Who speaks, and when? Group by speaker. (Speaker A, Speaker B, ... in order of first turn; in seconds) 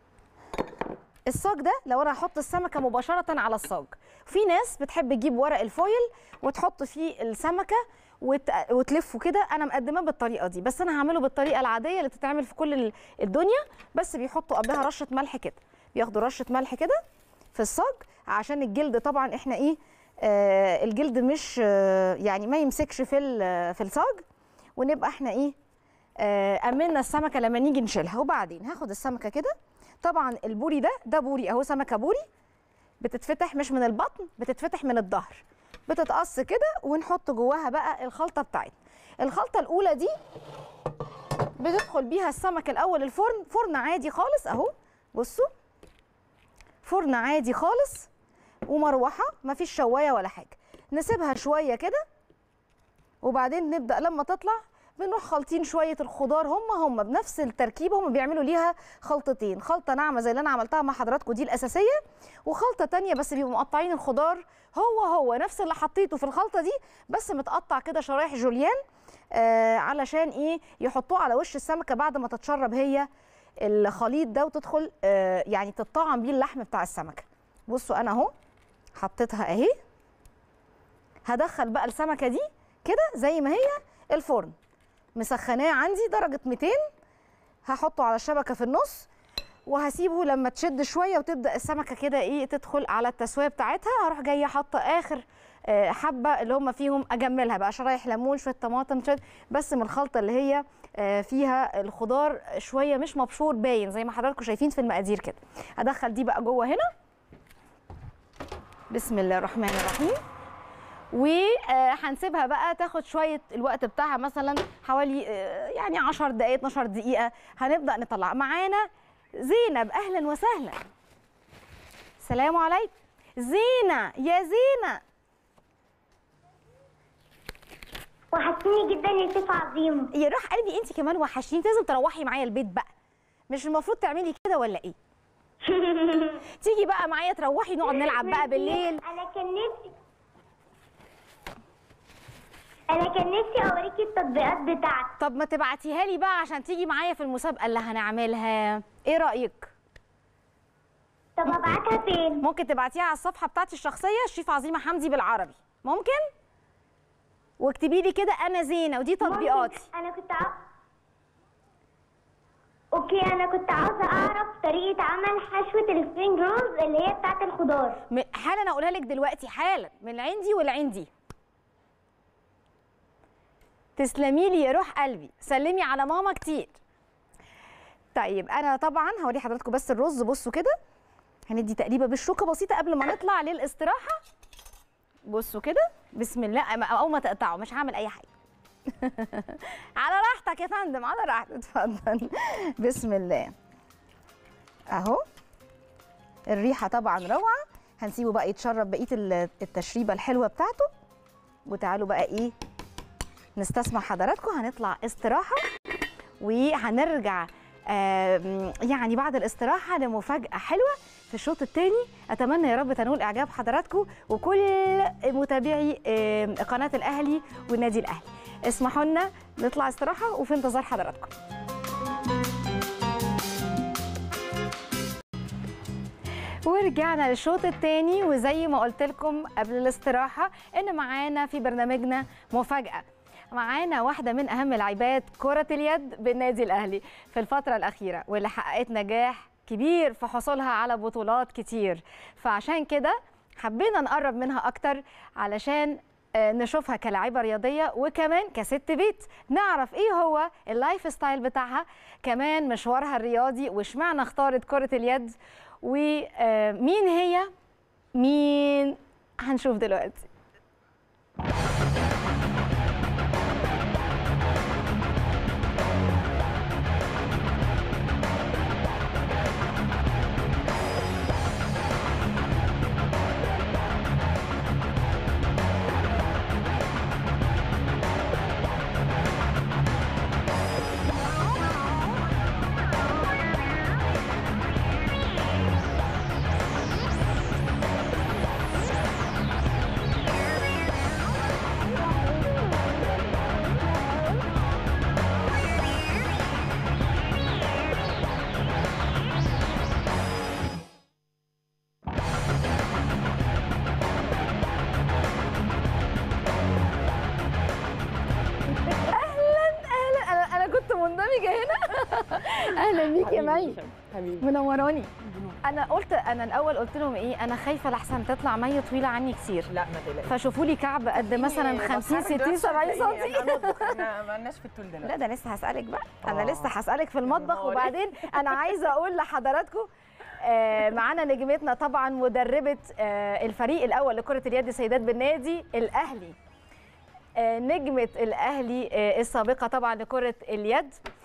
Speaker A: 1.3-17.0, 17.5-24.2, 24.8-25.5, 26.2-32.2, 33.0-40.1, 41.6-45.5, 46.8-48.1, 48.7-52.0, 53.2-68.8, 69.3-73.1, 73.6-78.3, 79.0-79.7, 81.2-84.5, 85.2-86.8, 87.7-89.1, 89.7-106.9, 108.9-110.2, 111.1-118.9, 119.4-120.8, 122.2-125.0, 130.1-132.9, 133.5-134.9, 136.6-139.0, 145.2-149.7, 152.4-156.3, 157.6-159.9, 168.1-171.1, 174.0-176.8, 178.1-180.8, 181.5-184.2, 185.2-188.3, 189.0-193.5, 194.9-195.2, 196.5-200.9, 201.7-202.5, 203.6-205.6, 206.4-221.3, 226.6-257.5, 258.1-260.3, 309.1-313.8, 314.4-315.1, 315.6-319.7, 320.3-324.0, 325.0-336.4, 337.4-340.9
Speaker B: 128.3-130.1, 135.6-136.4, 137.9-139.9, 142.9-145.1, 151.4-152.4, 159.2-160.6, 162.9-168.0
Speaker C: 312.5-314.5, 315.2-315.9, 319.7-320.4, 321.1-325.1, 326.2-328.7